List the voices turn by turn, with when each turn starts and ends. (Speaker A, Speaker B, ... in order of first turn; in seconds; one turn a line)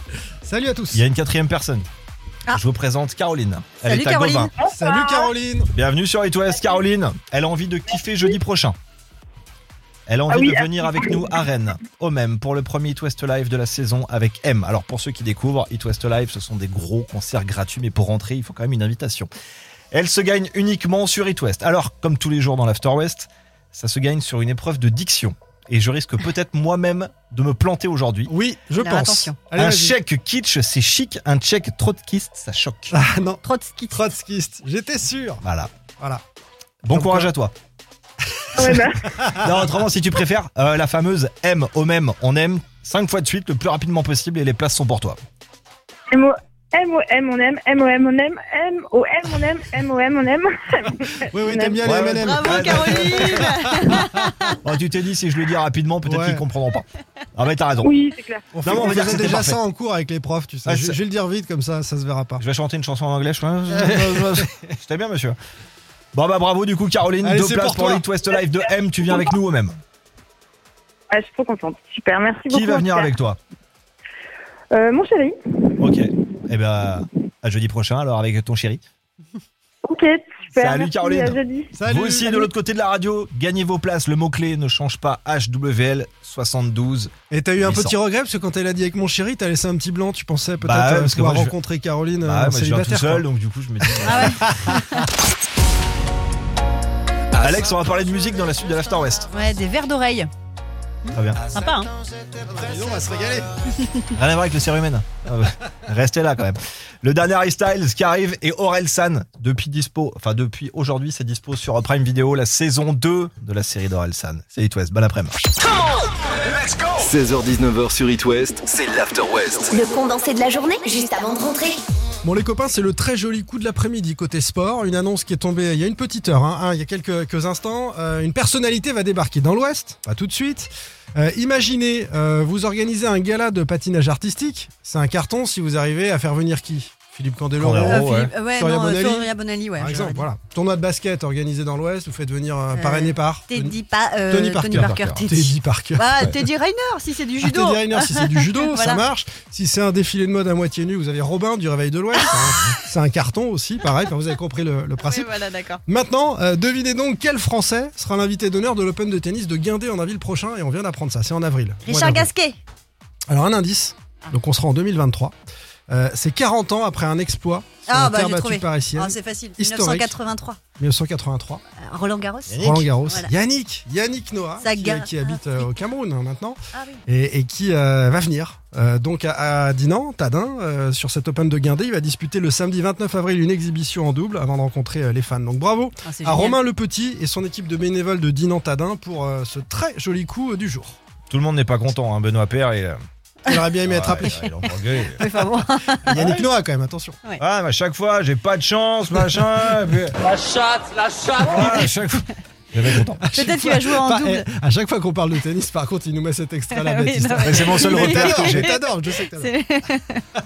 Speaker A: 0.4-1.0
Speaker B: 0.9-1.9
Speaker B: 2.5-4.5
Speaker C: 3.8-4.5
Speaker D: 4.6-5.3
Speaker A: 4.7-5.7
Speaker B: 5.7-8.8
Speaker B: 10.1-19.3
Speaker D: 10.3-11.3
Speaker B: 19.9-28.3
Speaker A: 28.3-29.9
Speaker C: 28.8-29.4
Speaker B: 29.5-32.9
Speaker A: 32.9-33.4
Speaker C: 33.4-34.0
Speaker A: 33.9-35.4
Speaker B: 35.4-35.7
Speaker B: 36.8-37.5
Speaker A: 36.9-37.3
Speaker A: 38.4-39.5
Speaker D: 38.5-39.1
Speaker B: 39.3-45.2
Speaker D: 46.1-51.9
Speaker A: 51.3-54.0
Speaker B: 51.8-53.5
Speaker C: 52.1-54.6
Speaker B: 54.6-57.9
Speaker A: 56.0-56.4
Speaker D: 57.8-58.8
Speaker A: 58.5-62.4
Speaker B: 58.6-59.6
Speaker B: 60.6-61.0
Speaker B: 62.4-65.4
Speaker A: 63.7-64.5
Speaker B: 66.1-69.8
Speaker A: 67.2-68.0
Speaker D: 71.1-73.1
Speaker B: 72.5-73.4
Speaker D: 74.7-75.8
Speaker B: 75.8-78.8
Speaker D: 79.8-81.7
Speaker B: 80.5-88.0
Speaker A: 81.7-82.5
Speaker A: 87.3-93.2
Speaker B: 90.6-91.5
Speaker B: 92.2-94.5
Speaker A: 93.8-95.0
Speaker C: 94.0-95.1
Speaker B: 97.3-99.3
Speaker C: 99.3-100.3
Speaker B: 101.1-101.4
Speaker C: 101.5-101.9
Speaker A: 102.4-103.5
Speaker B: 104.1-115.4
Speaker E: 116.5-119.8
Speaker F: 119.7-121.8
Speaker A: 122.2-143.8
Speaker B: 137.6-138.3
Speaker C: 137.8-140.3
Speaker C: 142.7-149.0
Speaker A: 144.3-146.1
Speaker B: 144.7-145.3
Speaker A: 147.4-155.3
Speaker C: 155.0-155.8
Speaker A: 155.9-162.3
Speaker C: 161.8-162.6
Speaker A: 163.3-165.3
Speaker A: 165.9-170.1
Speaker C: 167.9-170.6
Speaker A: 170.8-171.6
Speaker C: 171.8-173.3
Speaker B: 172.5-172.8
Speaker A: 172.6-191.0
Speaker C: 174.6-175.8
Speaker C: 176.7-177.0
Speaker C: 186.0-186.6
Speaker B: 191.3-193.0
Speaker A: 193.5-194.4
Speaker B: 193.8-195.2
Speaker C: 195.2-196.2
Speaker A: 196.0-197.2
Speaker B: 196.1-196.5
Speaker B: 197.4-200.7
Speaker B: 201.2-203.2
Speaker A: 203.1-209.5
Speaker C: 203.3-204.4
Speaker C: 206.7-210.2
Speaker B: 207.4-208.7